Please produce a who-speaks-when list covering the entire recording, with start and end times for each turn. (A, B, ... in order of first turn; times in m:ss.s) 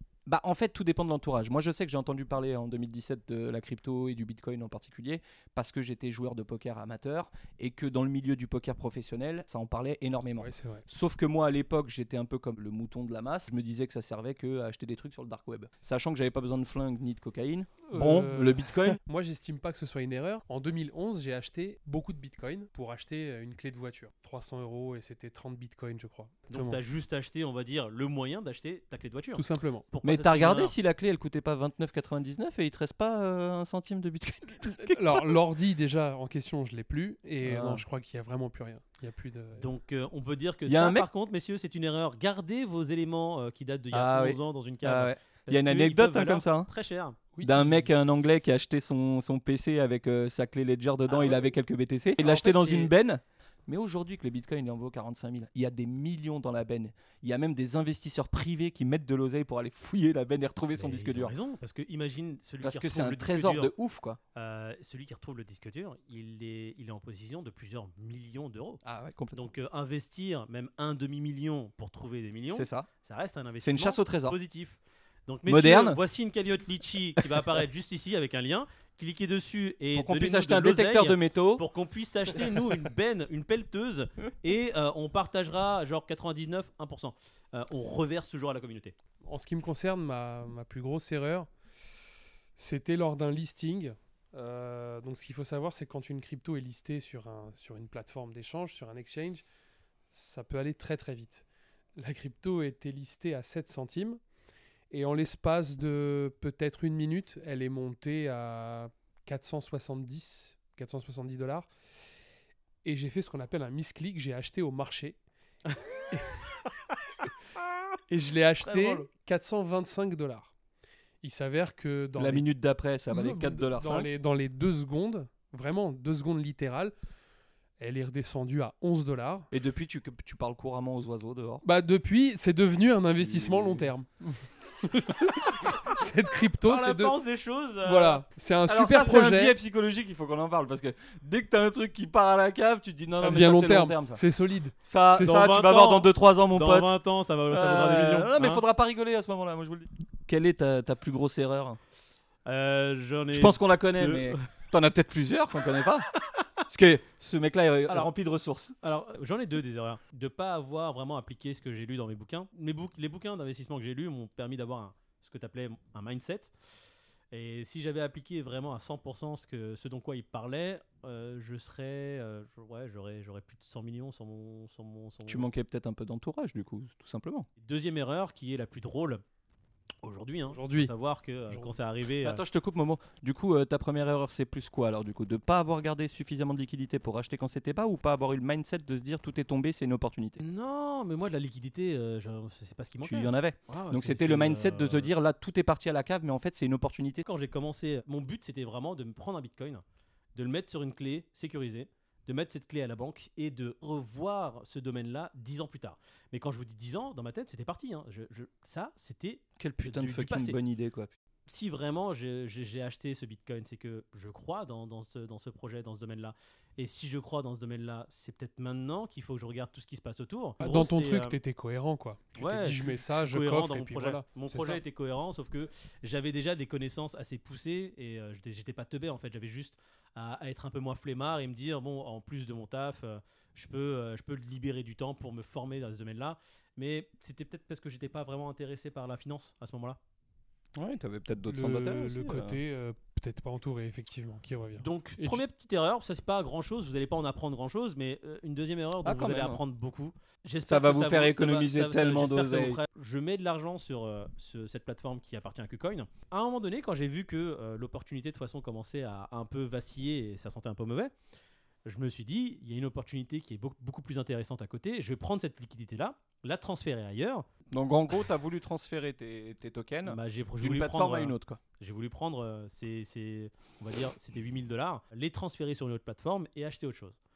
0:00.2-0:19.0 A
0:10.4-0:10.8 B
0:17.9-0:26.8 B
0:26.5-0:30.7 C
0:29.3-0:29.8 B
0:30.0-0:35.4 A
0:34.8-0:39.7 B
0:37.4-0:37.8 A
0:39.6-0:47.2 C
0:40.7-0:41.1 A
0:43.9-0:46.7 A
0:47.3-0:47.8 B
0:47.4-1:01.3 A
0:51.1-0:51.5 C
0:52.2-0:52.9 C
1:00.7-1:03.7 C
1:02.6-1:04.2 A
1:04.3-1:08.8 C
1:08.8-1:09.5 A
1:09.3-1:29.0 C
1:12.5-1:12.9 A
1:13.6-1:14.4 A
1:15.4-1:16.0 A
1:19.9-1:21.6 A
1:29.2-1:31.5 B
1:32.6-1:39.4 B
1:40.1-1:41.4 B
1:42.0-1:44.2 B
1:44.9-1:51.7 B
1:52.8-1:55.2 B
1:56.1-1:56.4 B
1:58.1-2:00.5 B
2:01.2-2:02.4 B
2:02.2-2:04.1 A
2:03.1-2:06.9 B
2:07.8-2:09.5 B
2:09.5-2:11.6 A
2:11.6-2:17.2 B
2:13.1-2:13.9 A
2:16.6-2:18.2 C
2:17.8-2:19.5 B
2:18.6-2:24.2 A
2:23.2-2:25.3 B
2:24.8-2:26.9 A
2:25.2-2:28.6 C
2:27.5-2:31.8 A
2:32.4-2:34.5 C
2:33.3-2:36.1 A
2:36.7-2:38.8 A
2:38.8-2:46.5 C
2:47.3-2:55.4 C
2:55.3-2:57.5 A
2:57.6-2:59.2 C
3:00.0-3:02.4 C
3:00.5-3:00.9 B
3:02.2-3:10.4 A
3:10.4-3:15.1 C
3:13.0-3:17.2 A
3:17.2-3:19.8 C
3:20.3-3:30.6 C
3:29.6-3:31.1 A
3:31.4-3:41.4 C
3:40.6-3:44.8 B
3:42.3-4:00.0 C
4:00.7-4:02.6 A
4:01.5-4:05.4 B
4:04.8-4:21.1 C
4:09.0-4:09.6 A
4:10.6-4:12.8 A
4:21.8-4:27.4 C
4:27.7-4:31.6 A
4:30.0-4:37.2 C